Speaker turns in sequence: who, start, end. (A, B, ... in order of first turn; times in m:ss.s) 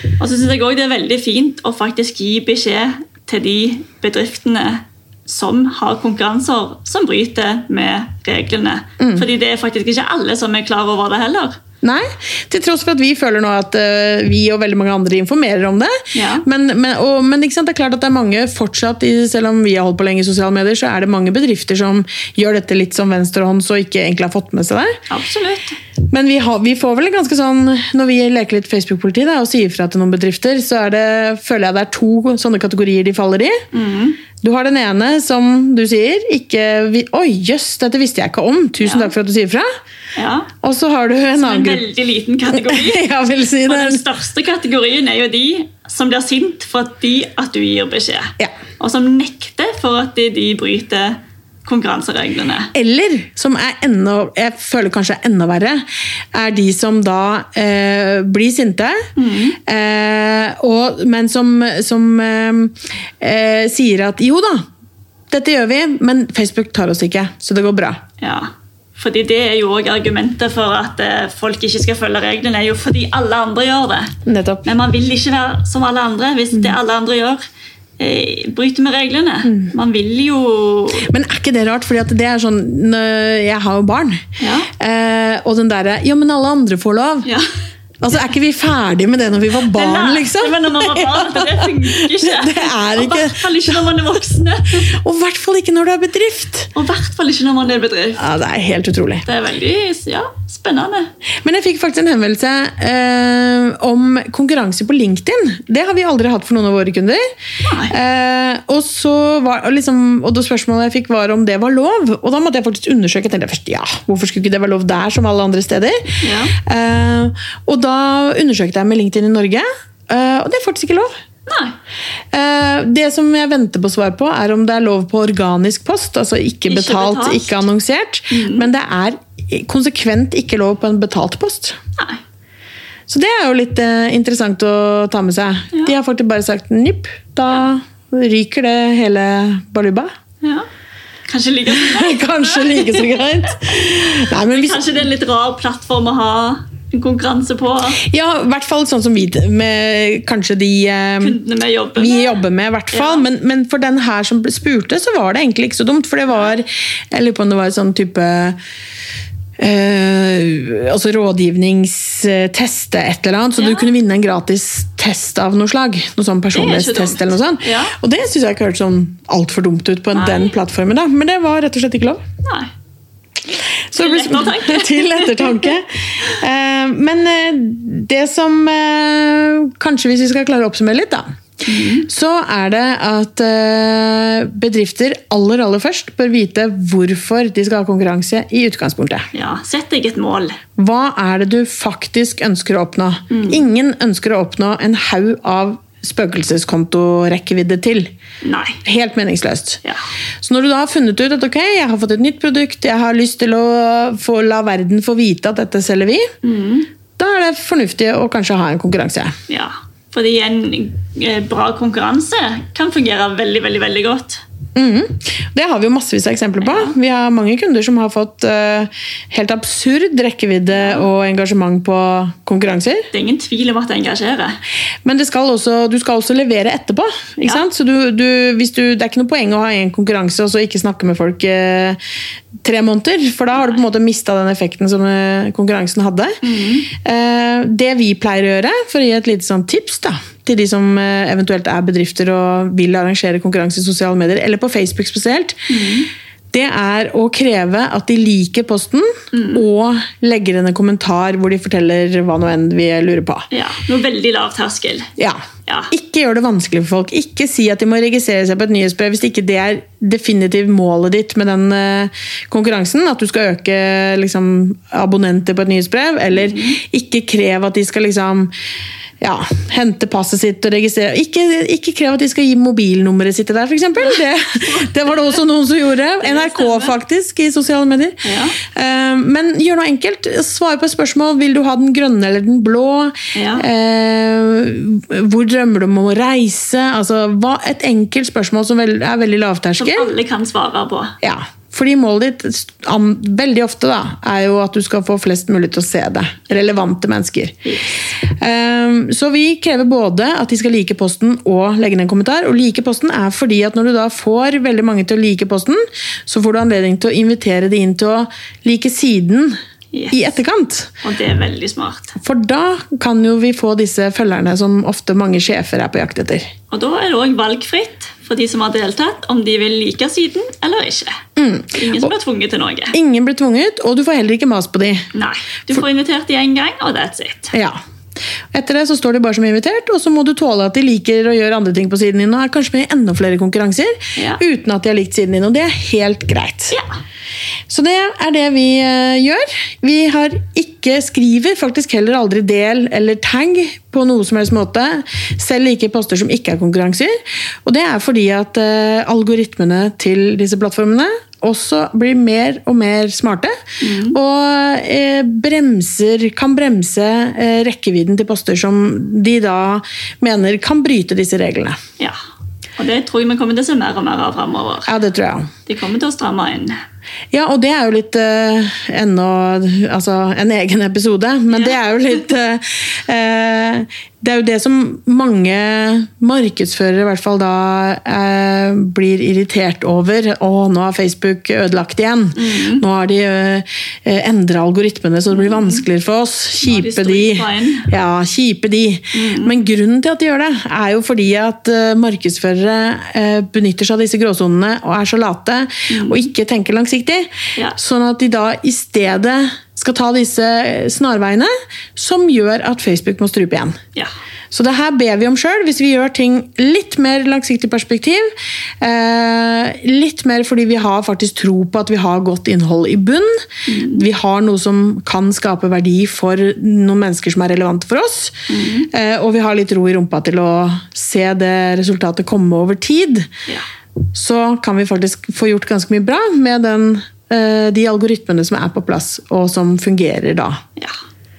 0:00.2-0:11.6 A
0:09.0-0:09.2 B
0:11.8-0:25.0 B
0:16.1-0:16.4 A
0:25.1-0:25.8 A
0:26.1-0:33.6 B
0:33.7-0:34.2 A
0:34.4-0:39.7 B
0:38.8-0:39.1 A
0:40.2-0:40.5 A
0:40.6-0:41.8 B
0:41.4-0:43.1 A
0:42.5-0:44.0 B
0:43.6-0:52.7 A
0:52.7-0:59.1 B
0:59.2-0:59.6 A
0:59.6-1:04.7 B
1:05.3-1:08.0 B
1:08.2-1:14.1 A
1:14.2-1:14.6 B
1:14.6-1:17.4 A
1:18.0-1:21.1 A
1:21.0-1:27.3 B
1:24.4-1:24.7 A
1:27.2-1:27.5 A
1:28.0-1:34.0 B
1:29.7-1:34.9 A
1:34.8-1:36.7 B
1:36.7-1:38.2 A
1:38.2-1:39.2 B
1:39.2-1:41.1 A
1:41.4-1:47.2 B
1:47.6-1:47.9 A
1:47.9-2:01.1 B
1:56.2-1:56.5 A
2:01.5-2:01.7 A
2:02.3-2:11.8 B
2:06.7-2:07.6 A
2:08.3-2:08.6 A
2:13.1-2:20.1 B
2:21.3-2:28.0 A
2:21.7-2:25.0 B
2:28.0-2:31.4 B
2:31.2-2:33.2 A
2:32.0-2:38.6 B
2:39.6-2:52.2 B
2:43.6-2:43.9 A
2:46.5-2:47.9 A
2:50.1-2:50.5 A
2:52.4-2:52.7 A
2:53.5-3:01.3 B
2:53.9-2:55.7 A
3:01.6-3:02.1 A
3:02.0-3:09.3 B
3:09.3-3:10.6 A
3:10.8-3:18.1 B
3:13.3-3:13.6 A
3:18.4-3:18.8 A
3:18.8-3:19.8 B
3:20.4-3:26.3 B
3:26.4-3:26.9 A
3:27.2-3:29.3 B
3:29.5-3:34.4 A
3:34.7-3:43.1 B
3:36.6-3:36.9 A
3:40.7-3:41.1 A
3:43.1-3:44.6 A
3:45.0-3:52.0 B
3:52.6-4:05.7 B
3:56.4-3:56.9 A
4:05.7-4:06.1 A
4:06.5-4:13.4 B
4:09.3-4:09.6 A
4:13.5-4:15.1 A
4:15.2-4:28.5 B
4:26.3-4:26.8 A
4:29.2-4:50.1 B
4:36.2-4:36.9 A
4:38.2-4:38.6 A
4:43.3-4:43.6 A
4:49.8-4:51.1 A
4:51.2-4:57.6 B
4:57.6-4:58.2 A
4:58.2-5:09.6 B
5:09.9-5:10.3 A
5:10.1-5:10.9 B
5:11.0-5:12.2 A
5:12.2-5:16.5 B
5:16.7-5:21.2 A
5:21.4-5:22.1 B
5:21.7-5:23.0 A
5:22.9-5:25.1 B
5:25.1-5:27.5 A
5:27.5-5:27.8 B
5:28.5-5:36.8 B
5:34.2-5:34.4 A
5:37.7-6:01.8 B
5:53.8-5:54.2 A
6:02.8-6:04.9 A
6:04.8-6:05.5 B
6:05.6-6:06.8 A
6:07.3-6:43.8 B
6:11.5-6:11.8 A
6:22.4-6:22.8 A
6:25.3-6:25.8 A
6:26.6-6:27.9 A
6:29.1-6:29.5 A
6:35.9-6:36.3 A
6:44.5-7:03.3 B
6:53.7-6:54.0 A
6:58.5-6:58.9 A
7:04.1-7:10.6 B